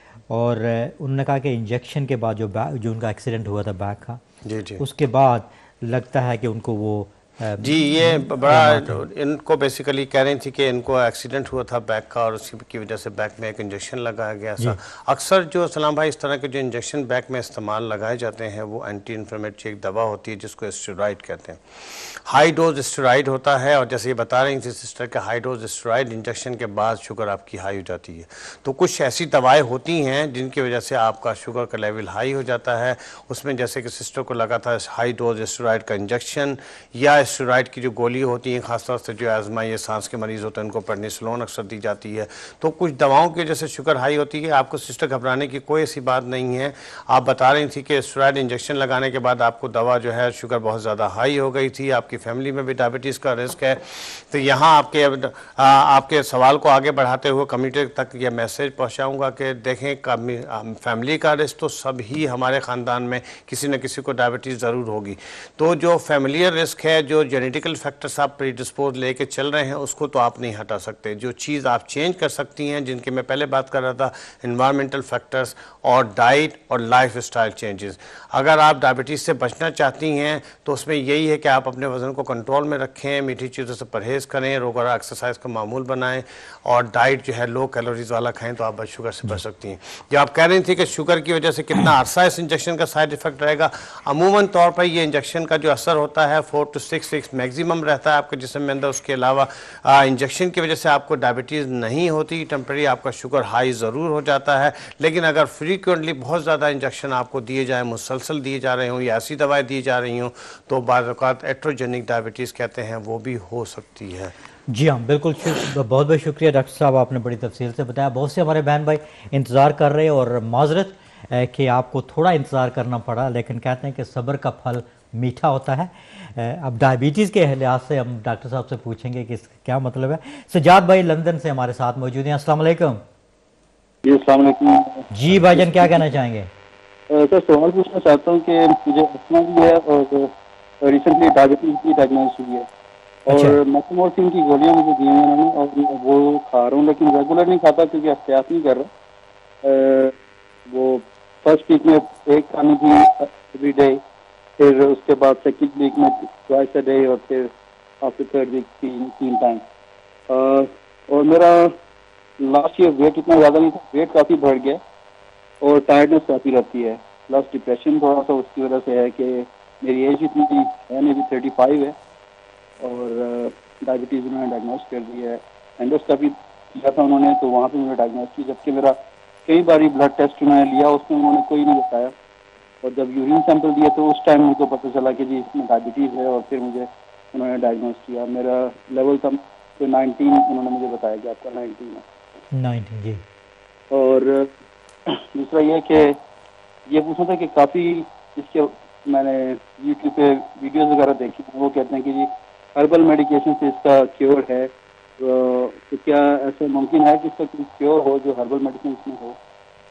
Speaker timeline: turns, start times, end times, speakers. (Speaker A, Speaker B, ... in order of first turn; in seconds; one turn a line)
Speaker A: 0.3-4.2
Speaker B: 4.4-4.8
Speaker A: 4.8-9.0
Speaker B: 7.6-114.3
Speaker A: 114.7-133.0
Speaker C: 134.0-136.0
Speaker A: 135.1-136.5
Speaker C: 137.1-142.7
Speaker C: 143.3-148.9
Speaker A: 143.3-143.6
Speaker C: 149.6-150.1
Speaker C: 150.7-154.0
Speaker C: 154.6-157.5
Speaker C: 158.0-159.7
Speaker C: 160.3-161.8
Speaker C: 162.4-164.8
Speaker C: 165.6-172.0
Speaker C: 172.8-182.1
Speaker C: 182.8-192.1
Speaker A: 192.5-193.2
Speaker C: 193.9-194.5
Speaker C: 195.1-196.2
Speaker C: 196.9-209.4